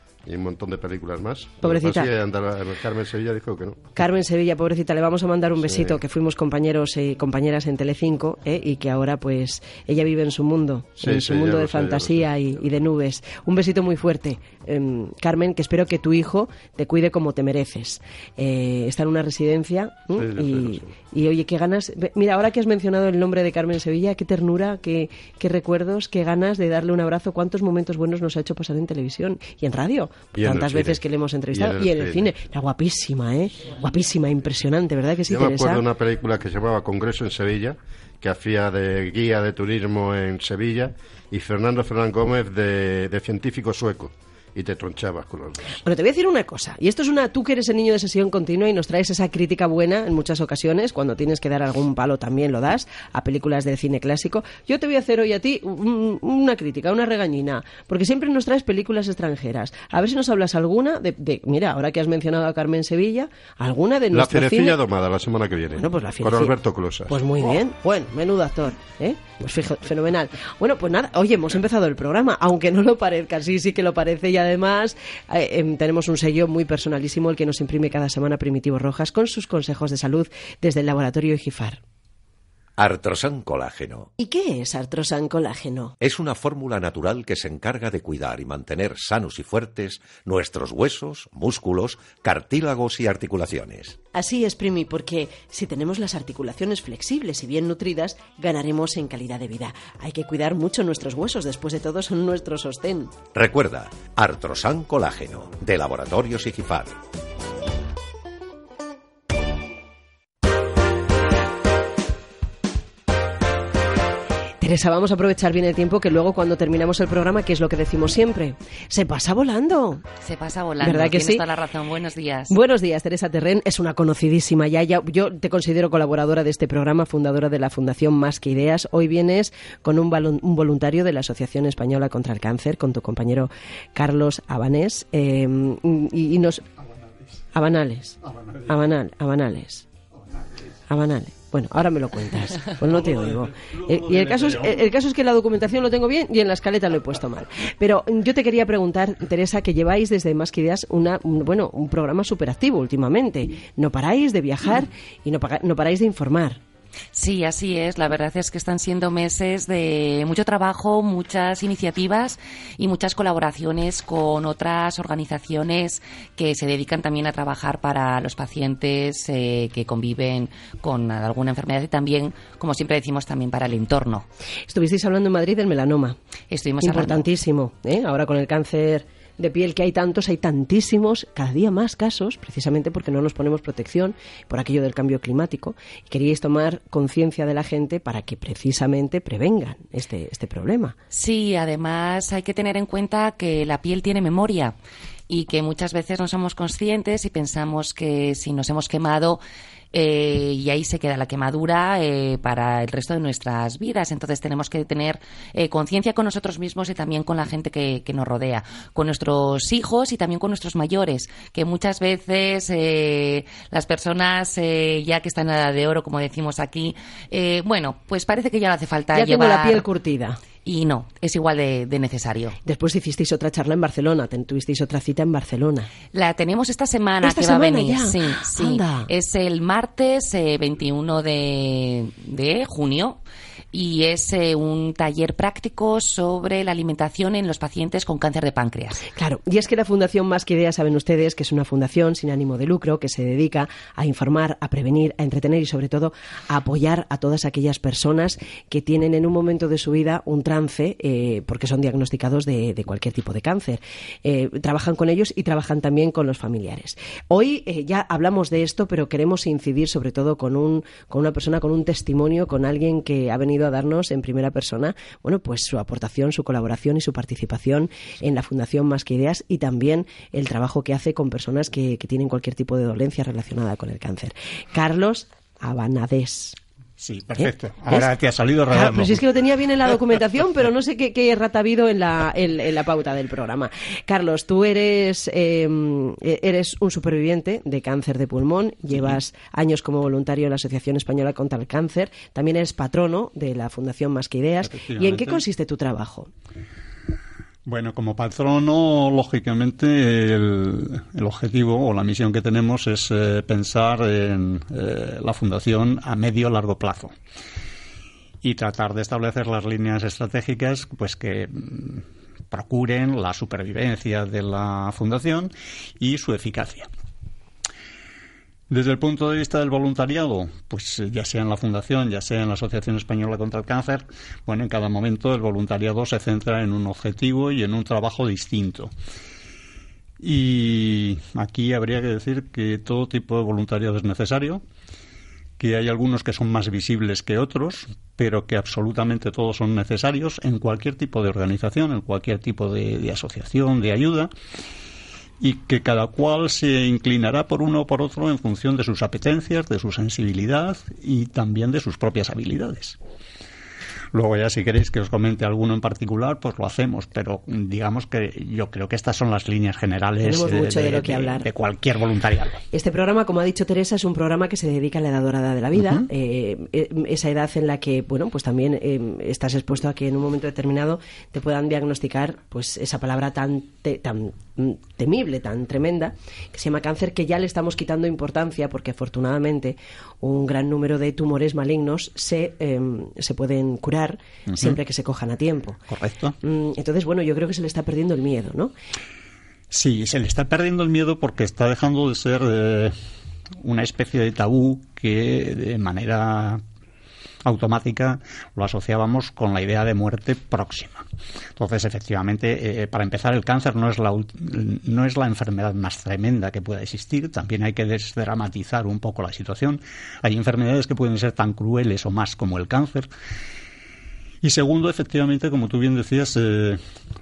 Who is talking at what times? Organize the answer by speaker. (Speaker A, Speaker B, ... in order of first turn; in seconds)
Speaker A: 0.3-3.8, 5.6-6.0, 11.0-12.3, 20.2-20.9, 30.4-31.0, 31.5-32.3, 35.3-45.7, 64.1-67.2
Speaker B: 1.6-2.1, 4.0-35.9, 45.8-64.8, 65.8-66.6, 67.1-81.8, 84.2-86.0, 94.1-103.2, 114.6-120.0, 120.8-121.4, 122.5-136.6, 137.5-139.9, 140.9-156.6, 174.7-176.2, 176.8-191.0, 219.1-220.4, 222.7-225.9, 227.2-229.1, 239.1-276.6, 277.4-278.1, 278.7-296.3, 360.2-361.5, 362.7-385.8, 386.4-388.7
Speaker C: 82.8-84.1, 86.0-94.0, 103.3-107.0
Speaker D: 120.2-122.5, 157.1-174.3, 176.5-177.2, 191.1-194.8, 195.3-199.4, 199.9-219.8, 220.7-222.6, 226.1-233.2, 233.7-239.1
Speaker E: 144.1-144.5, 277.0-279.2, 294.6-295.4, 297.7-307.1, 308.4-316.9, 318.7-328.9, 330.2-334.6, 335.6-344.3, 345.4-353.0, 354.1-362.6, 365.8-366.1, 384.5-384.8, 385.9-386.4, 389.7-392.9, 393.6-396.6, 397.5-401.0, 401.6-413.1, 414.4-416.8